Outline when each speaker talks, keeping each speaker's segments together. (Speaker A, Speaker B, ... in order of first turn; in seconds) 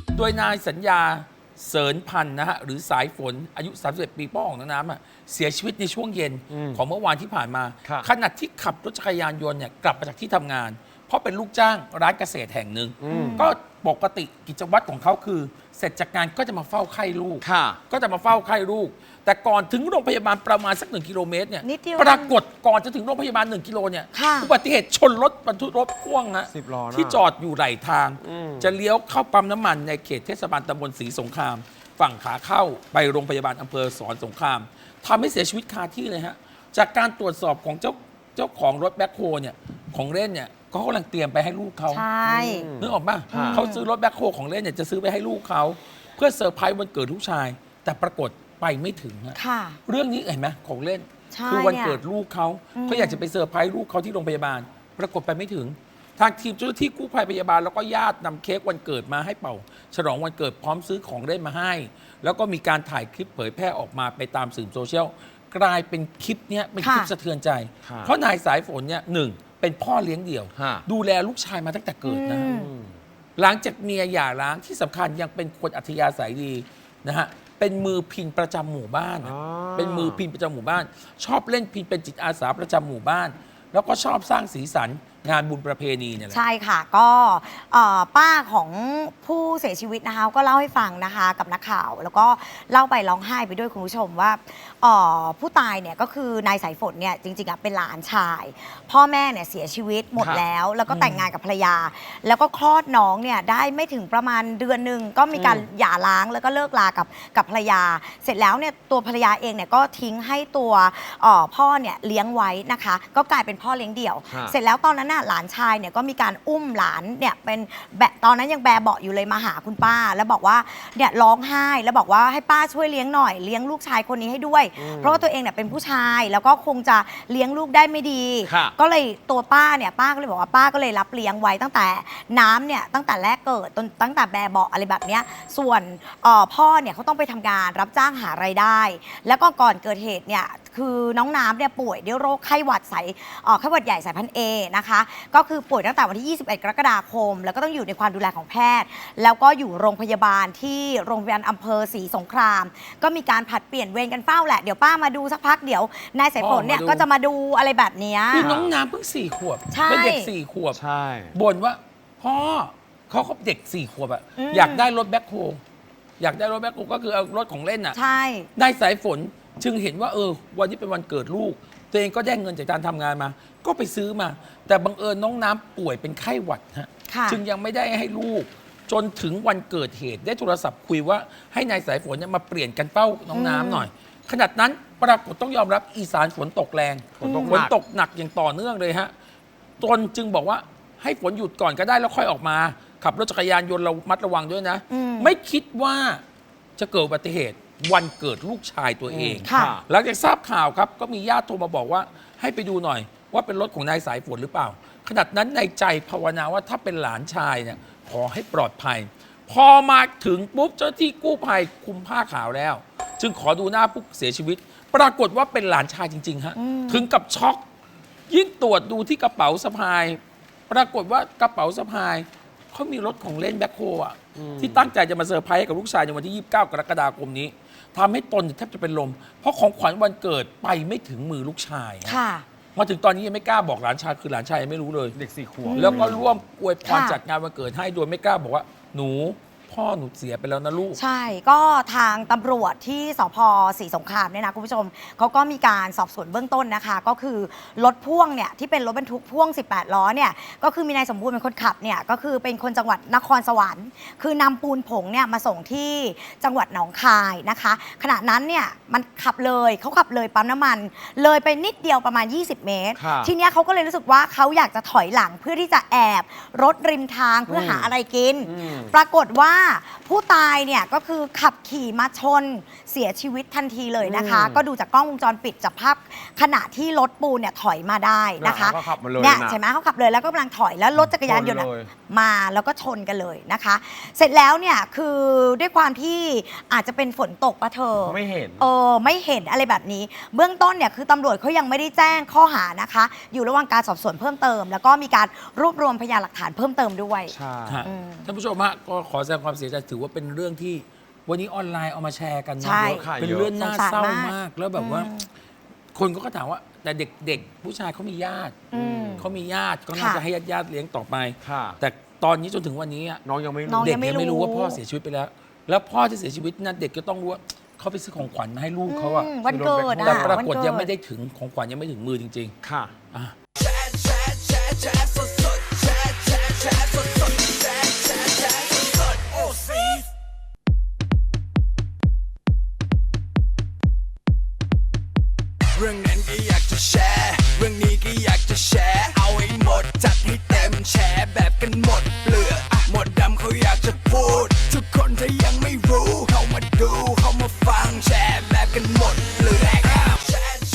Speaker A: 0.1-42.0, 42.8-72.5, 73.4-86.4, 100.9-101.3, 156.4-157.1, 158.3-160.8, 161.3-165.6, 166.2-168.0, 168.6-189.1, 189.8-196.2, 196.8-217.6, 218.3-232.2, 232.8-235.2, 235.7-241.0, 297.7-305.1, 305.9-313.2, 313.8-319.3, 320.0-322.6
Speaker B: 6.5-6.8, 13.0-13.5, 17.4-17.8, 26.5-27.2, 28.2-28.7, 42.3-43.6, 67.8-68.1, 70.5-70.8, 72.5-73.0, 79.2-80.2, 100.2-100.4, 105.3-105.7, 114.3-114.6, 124.8-125.3, 128.4-128.8, 158.4-158.7, 160.7-161.4, 187.2-187.8, 199.1-199.8, 224.4-224.9, 235.2-236.3, 263.0-263.3, 267.5-267.9, 268.5-268.9, 274.0-274.6, 278.4-279.6, 281.0-281.9, 288.0-288.7, 297.3-297.9, 302.8-303.5, 308.7-309.4, 311.4-311.8, 313.2-314.0, 319.5-320.4, 322.6-322.9, 335.9-336.5, 337.4-338.4, 342.2-342.6, 344.5-344.9, 346.4-347.4, 348.2-349.7
Speaker C: 13.1-13.5, 21.6-22.4, 24.1-24.5, 41.9-42.7, 43.3-43.9, 49.4-49.8, 51.3-52.0, 52.8-53.2, 66.8-67.1, 72.0-72.7, 86.3-158.6, 159.7-160.3, 164.4-164.9, 167.9-168.5, 177.1-177.4, 183.3-183.9, 187.2-187.7, 194.9-195.3, 199.5-199.8, 216.6-217.1, 232.1-232.5, 235.7-236.2, 236.8-237.2, 240.9-297.3, 297.8-298.3, 302.6-305.3, 308.7-309.2, 309.9-310.2, 313.7-314.8, 318.9-320.9
Speaker D: 324.0-326.7, 335.8-348.4, 348.9-349.4, 350.0-350.4